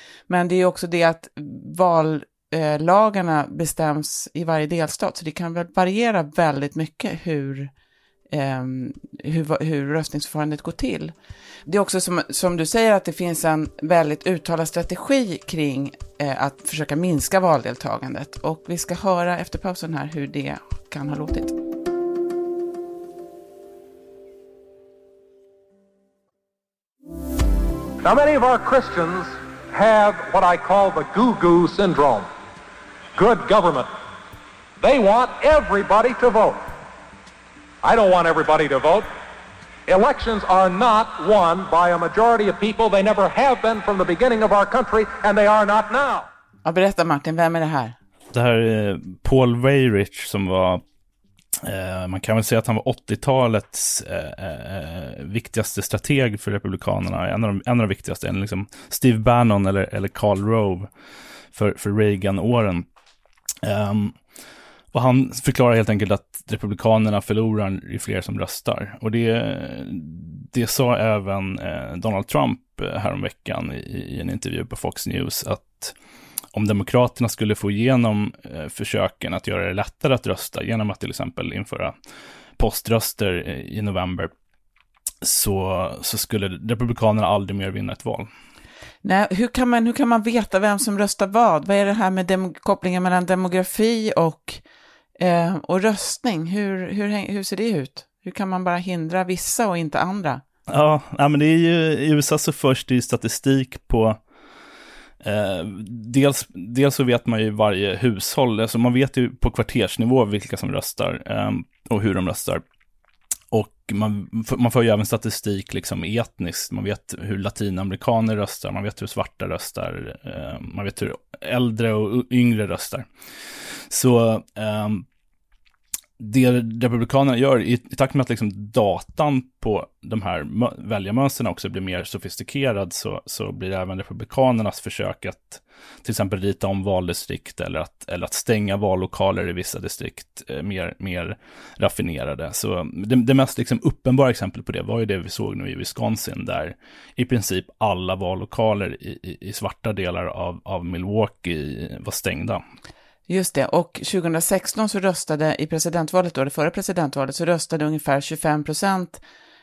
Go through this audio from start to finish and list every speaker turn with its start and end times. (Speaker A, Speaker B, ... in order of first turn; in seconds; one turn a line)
Speaker A: 0.3-7.7
Speaker A: 8.3-11.1
Speaker A: 11.7-21.5
Speaker B: 28.0-32.2
Speaker B: 33.1-33.9
Speaker B: 34.8-36.6
Speaker B: 37.8-39.0
Speaker B: 39.9-46.3
Speaker A: 46.6-48.0
Speaker C: 48.3-50.8
Speaker C: 51.6-60.9
Speaker C: 61.5-62.9
Speaker C: 63.6-64.2
Speaker C: 64.9-75.9
Speaker C: 76.5-81.9
Speaker C: 82.6-84.3
Speaker C: 85.2-88.3
Speaker A: 89.0-94.6
Speaker A: 95.2-100.4
Speaker C: 100.7-104.2
Speaker C: 105.2-112.6
Speaker C: 113.5-123.0
Speaker C: 123.9-125.0
Speaker C: 126.2-152.6
Speaker A: 153.3-159.2